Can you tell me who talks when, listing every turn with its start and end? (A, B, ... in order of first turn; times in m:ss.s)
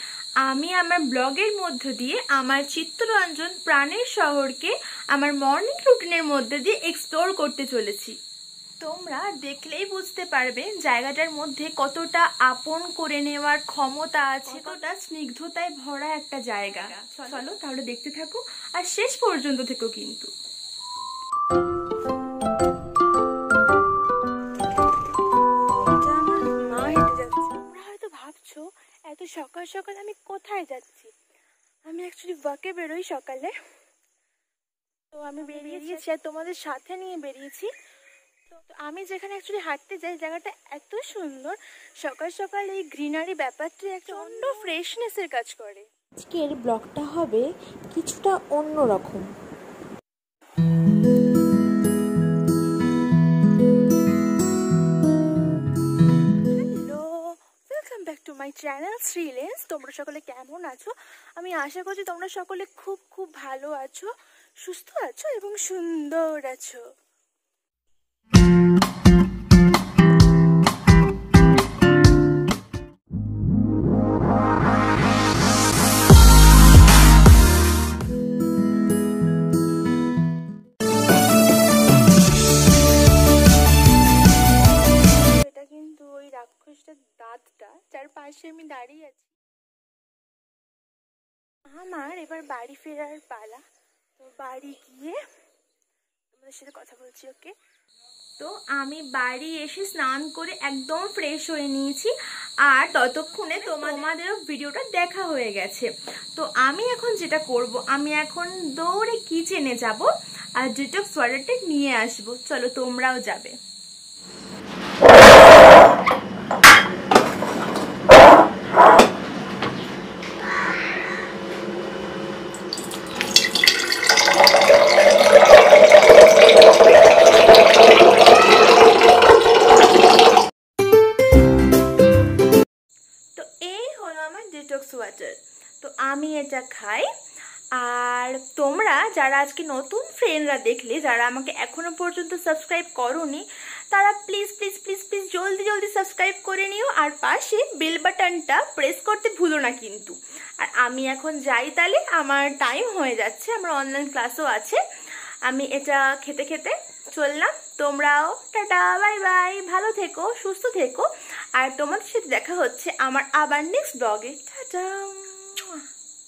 0:00.4-0:08.2 A
0:08.8-0:20.3 A
0:14.5-0:14.8 B
0:17.1-0:17.4 B
0:25.8-0:31.1 B
0:31.9-0:33.5 B
0:35.1-0:37.7 B
0:35.6-0:35.9 A
0:38.5-0:45.9 B
0:44.1-0:45.1 A
0:46.3-0:47.4 C
0:47.9-0:49.2 C
0:56.5-1:04.1 B
1:04.6-1:06.8 B
1:25.2-1:29.3 B
1:31.7-1:33.6 B
1:34.2-1:35.2 B
1:36.3-1:37.5 B
1:38.4-1:42.1 A
1:42.7-1:53.6 A
1:43.2-1:44.1 B
2:13.4-2:17.1 A
2:17.8-2:34.8 A
2:35.5-2:45.8 A